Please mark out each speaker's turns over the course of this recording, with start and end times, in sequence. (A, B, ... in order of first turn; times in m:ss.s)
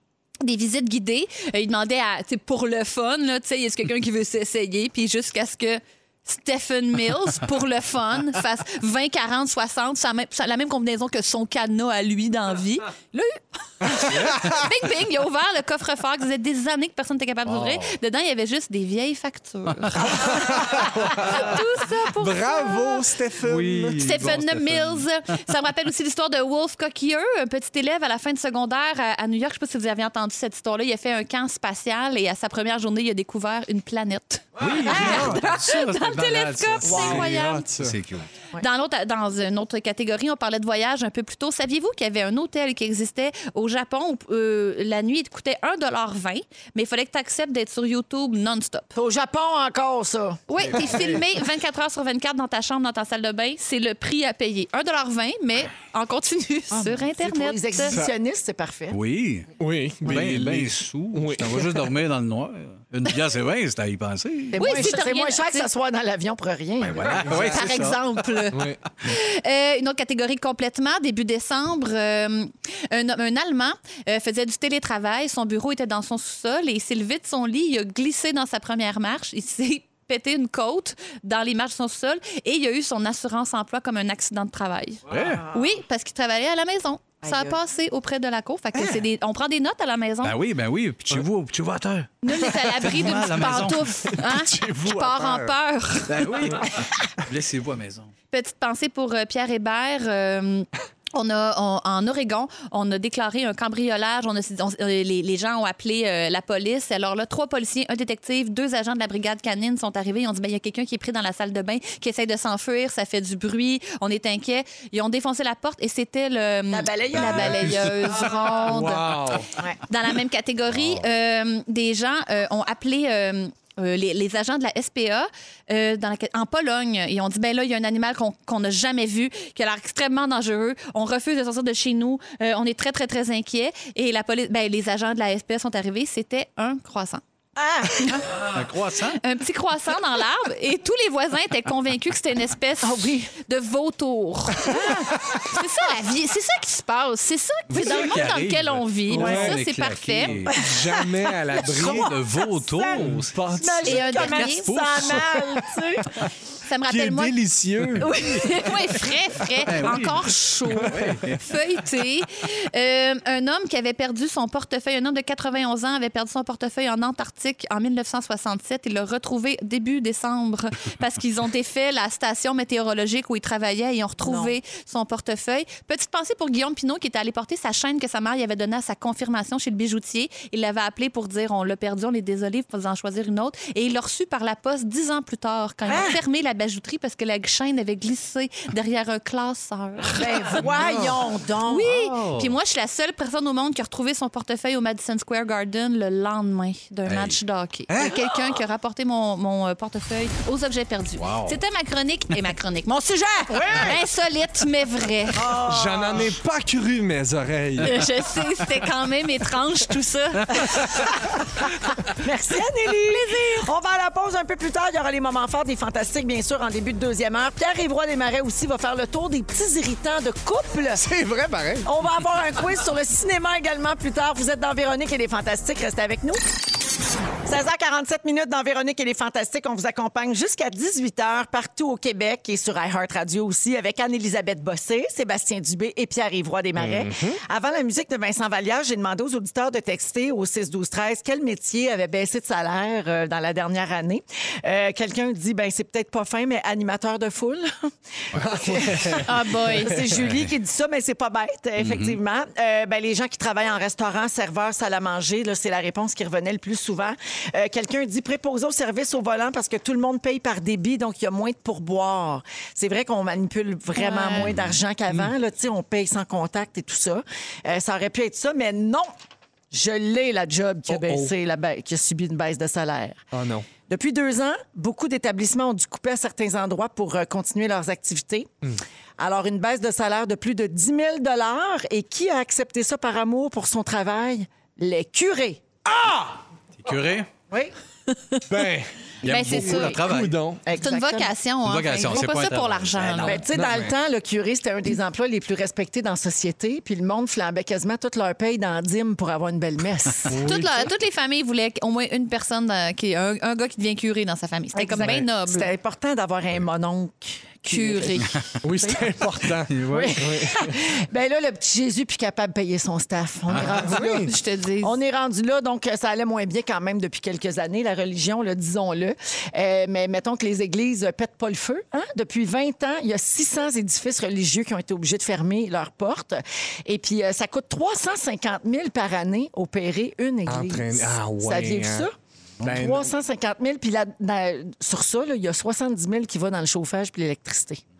0:00.4-0:23.1 A
0:14.0-0:14.6 B
0:14.1-0:14.4 C
0:17.4-0:17.9 C
0:20.1-0:21.6 B
0:22.1-0:24.2 B
0:23.4-0:25.1 C
0:24.0-0:37.7 A
0:34.6-0:38.3 C
0:34.9-0:35.4 B
0:36.8-0:38.0 B
0:36.8-0:37.3 D
0:38.6-0:48.9 A
0:48.9-0:50.9 D
0:50.5-0:58.0 A
0:50.7-0:51.2 B
0:56.7-0:59.0 D
0:58.9-0:59.5 C
0:59.6-1:01.8 B
1:00.0-1:04.9 C
1:04.5-1:07.3 D
1:04.6-1:05.7 A
1:06.8-1:08.0 C
1:07.2-1:07.6 B
1:07.3-1:30.4 A
1:08.5-1:08.8 B
1:25.1-1:25.4 C
1:25.2-1:25.7 D
1:27.2-1:27.6 D
1:30.2-1:34.2 C
1:32.2-1:36.4 A
1:34.1-1:35.5 B
1:36.1-1:38.1 C
1:38.3-2:17.2 A
1:56.7-1:57.9 D
1:57.3-1:59.5 B
2:00.7-2:01.1 C
2:17.6-2:18.4 D
2:18.4-2:19.2 C
2:19.2-2:30.4 A
2:22.8-2:23.3 D
2:24.6-2:25.4 D
2:27.7-2:30.6 C
2:29.1-2:29.6 B
2:30.5-2:32.1 B
2:30.5-2:31.0 D
2:31.6-2:36.2 D
2:31.6-2:35.4 C
2:33.0-2:33.9 B
2:33.8-2:34.8 A
2:36.6-2:37.4 A
2:36.9-2:38.7 B
2:38.0-3:10.6 A
2:39.7-2:41.4 C
2:40.9-2:41.4 B
2:54.2-2:54.6 D
3:05.9-3:06.2 D
3:10.1-3:12.0 D
3:10.6-3:11.2 B
3:11.6-3:25.5 A
3:11.9-3:12.5 C
3:17.1-3:17.4 C
3:17.9-3:18.2 B
3:21.2-3:21.6 C
3:23.5-3:24.0 D
3:25.3-3:26.4 D
3:25.6-3:28.1 B
3:27.8-3:31.0 A
3:32.1-3:41.0 D
3:40.9-3:41.9 B
3:41.8-3:46.4 D
3:47.4-4:29.1 D
3:56.8-3:57.4 B
4:08.4-4:09.3 B
4:09.2-4:10.0 A
4:11.8-4:12.2 C
4:23.9-4:24.5 A
4:24.4-4:24.8 C
4:29.7-4:33.3 D
4:30.9-4:31.3 B
4:33.3-4:33.7 B
4:33.8-4:38.5 D
4:39.2-4:45.6 D
4:45.9-4:46.4 B
4:46.8-4:47.3 C
4:48.5-4:50.6 B
4:49.2-4:50.4 C
4:49.2-4:50.0 A
4:50.6-4:51.3 D
4:50.7-4:53.4 A
4:51.6-4:53.4 C
4:53.2-5:00.4 D
4:53.5-4:53.9 B
5:00.3-5:00.9 B
5:00.3-5:05.7 A
5:04.7-5:09.0 D
5:07.7-5:08.4 A
5:08.6-5:10.7 B
5:09.7-5:10.2 C
5:09.8-5:37.8 D
5:13.5-5:13.8 C
5:13.7-5:14.3 B
5:13.9-5:15.0 A
5:30.5-5:32.1 B
5:32.6-5:33.1 B